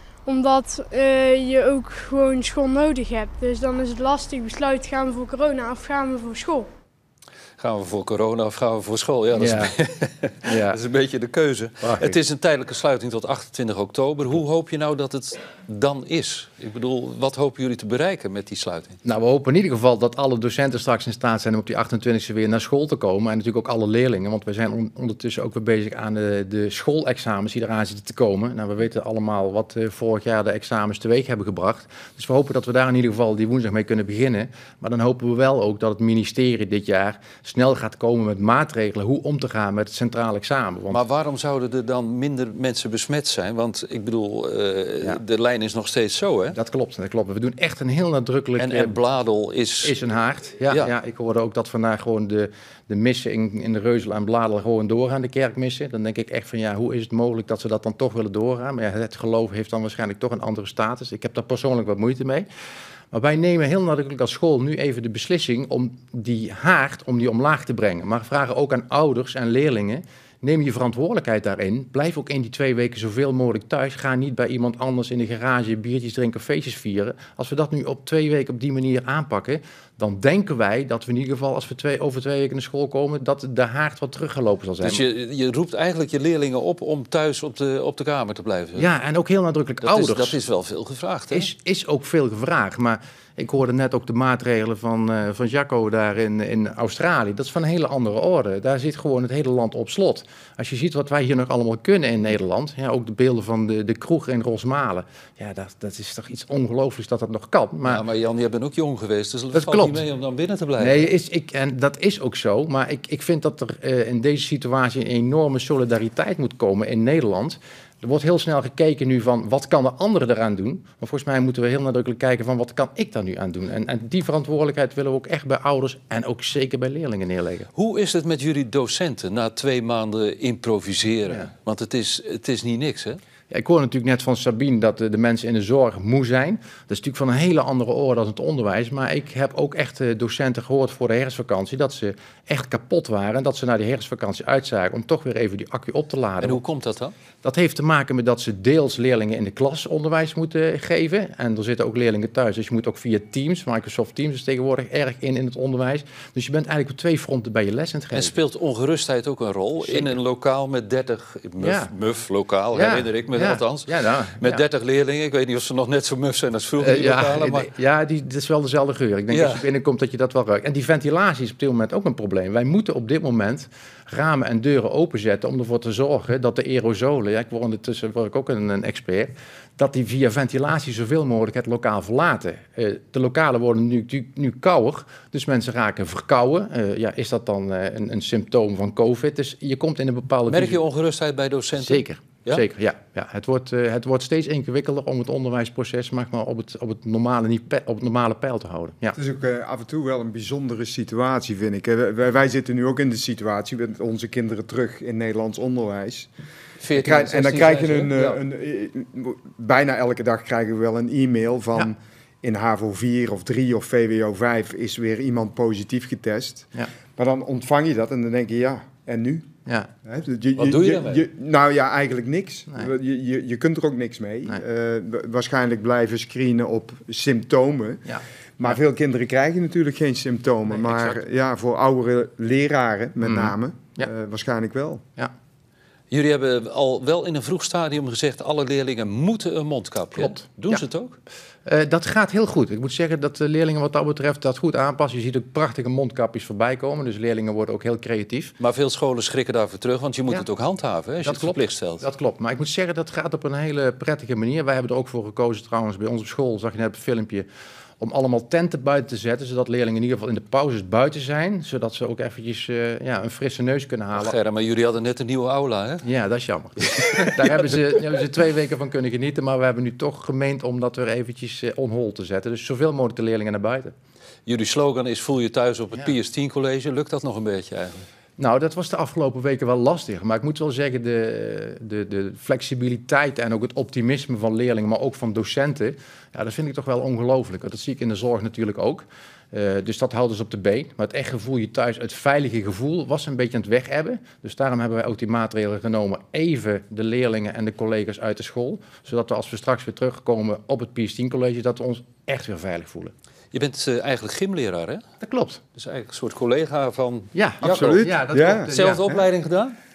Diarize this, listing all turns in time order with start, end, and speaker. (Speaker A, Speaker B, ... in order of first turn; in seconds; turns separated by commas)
Speaker A: 0.2-6.7, Speaker B: 7.6-19.0, Speaker C: 9.3-9.7, Speaker C: 10.4-10.8, Speaker C: 11.8-12.2, Speaker C: 19.0-41.0, Speaker B: 40.9-46.6, Speaker C: 46.5-49.0, Speaker B: 48.6-50.0, Speaker C: 49.8-62.5, Speaker C: 63.1-85.0, Speaker B: 84.8-88.9, Speaker C: 88.8-90.4, Speaker B: 89.8-91.5, Speaker C: 91.3-108.0, Speaker B: 107.8-111.1, Speaker C: 109.5-110.0, Speaker C: 110.8-127.7, Speaker B: 127.7-133.2, Speaker C: 133.5-146.6, Speaker B: 146.4-147.1, Speaker C: 147.4-158.4, Speaker B: 158.1-167.7, Speaker C: 159.9-160.1, Speaker C: 161.6-161.9, Speaker C: 162.7-164.6, Speaker C: 166.8-190.8, Speaker B: 169.3-169.6, Speaker B: 190.5-192.6, Speaker C: 191.8-199.2, Speaker D: 199.2-206.3, Speaker B: 206.8-208.4, Speaker D: 206.9-219.5, Speaker D: 220.0-228.1, Speaker B: 220.6-221.2, Speaker C: 228.1-228.8, Speaker D: 228.6-235.0, Speaker C: 230.7-231.2, Speaker C: 233.2-234.1, Speaker B: 236.1-241.2, Speaker C: 240.1-240.8, Speaker C: 241.7-248.6, Speaker B: 248.6-252.0, Speaker C: 251.2-257.5, Speaker C: 258.0-264.4, Speaker B: 264.1-266.1, Speaker C: 266.0-273.9, Speaker B: 266.8-268.0, Speaker B: 274.4-278.1, Speaker C: 278.4-303.1, Speaker B: 303.5-305.0, Speaker C: 305.2-305.6, Speaker B: 305.7-308.1, Speaker C: 307.3-309.0, Speaker D: 307.6-309.2, Speaker B: 308.6-309.8